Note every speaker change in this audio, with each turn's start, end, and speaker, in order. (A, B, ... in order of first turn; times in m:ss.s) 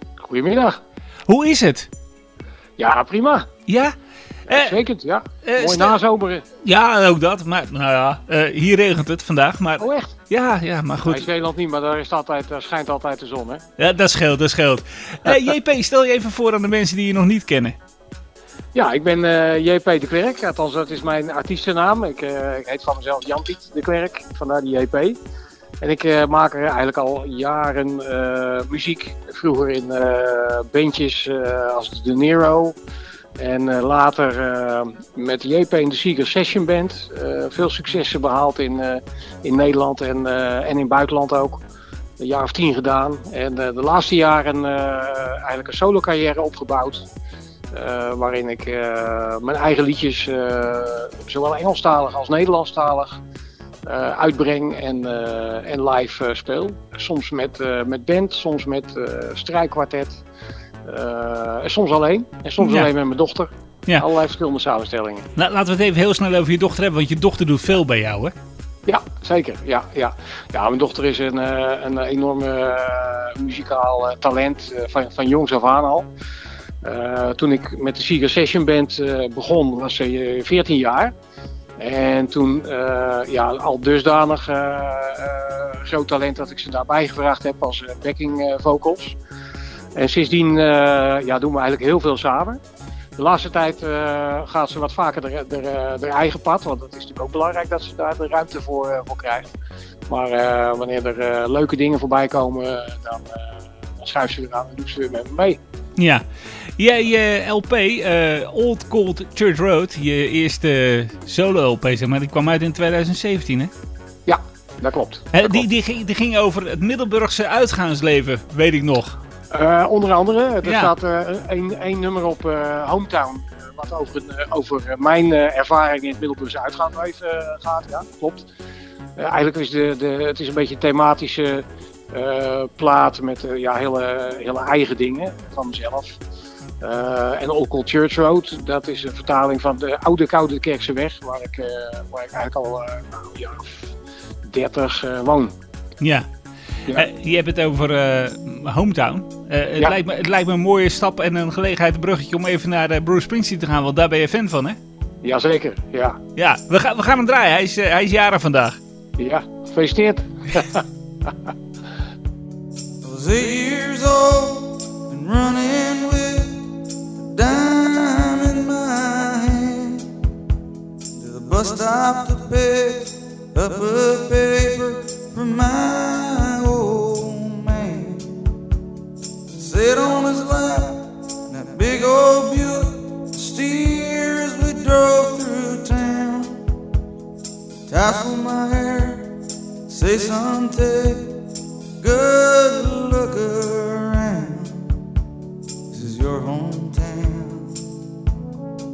0:00.2-0:00.8 A
0:01.3-0:01.9 B
0:02.8-0:03.5 A
0:03.7-0:03.9 B
0:04.5-0:06.4 A
0:04.5-0:04.8 B
0:05.4-0:06.0 B
0:06.6-0:11.2 B
0:09.8-0:10.1 A
0:11.0-0:13.6 A
0:13.8-0:17.8 B
0:18.7-0:25.2 A
0:25.8-0:32.8 A
0:33.4-0:41.6 A
0:42.2-0:47.1 A
0:47.7-0:53.2 A
0:53.8-1:00.2 A
1:00.8-1:05.3 A
1:02.6-1:02.9 B
1:05.4-1:08.3 B
1:08.8-1:16.1 A
1:16.8-1:21.1 A
1:21.8-1:29.2 A
1:29.9-1:32.6 A
1:33.2-1:39.5 A
1:40.1-1:45.6 A
1:46.0-1:46.2 B
1:46.8-1:53.7 B
1:54.2-1:55.6 A
1:55.3-1:59.2 B
1:59.5-2:08.5 A
2:00.6-2:00.9 B
2:09.2-2:16.2 A
2:16.8-2:23.9 A
2:24.4-2:25.5 A
2:26.0-2:26.3 B
2:26.9-2:34.8 B
2:35.2-2:36.2 A
2:36.4-2:38.8 B
2:39.2-2:40.8 A
2:43.0-2:46.6 C
2:47.2-2:50.1 C
2:51.1-2:58.4 C
2:59.6-3:06.6 C
3:07.9-3:09.3 C
3:09.9-3:11.4 C
3:12.0-3:14.9 C
3:15.9-3:17.8 C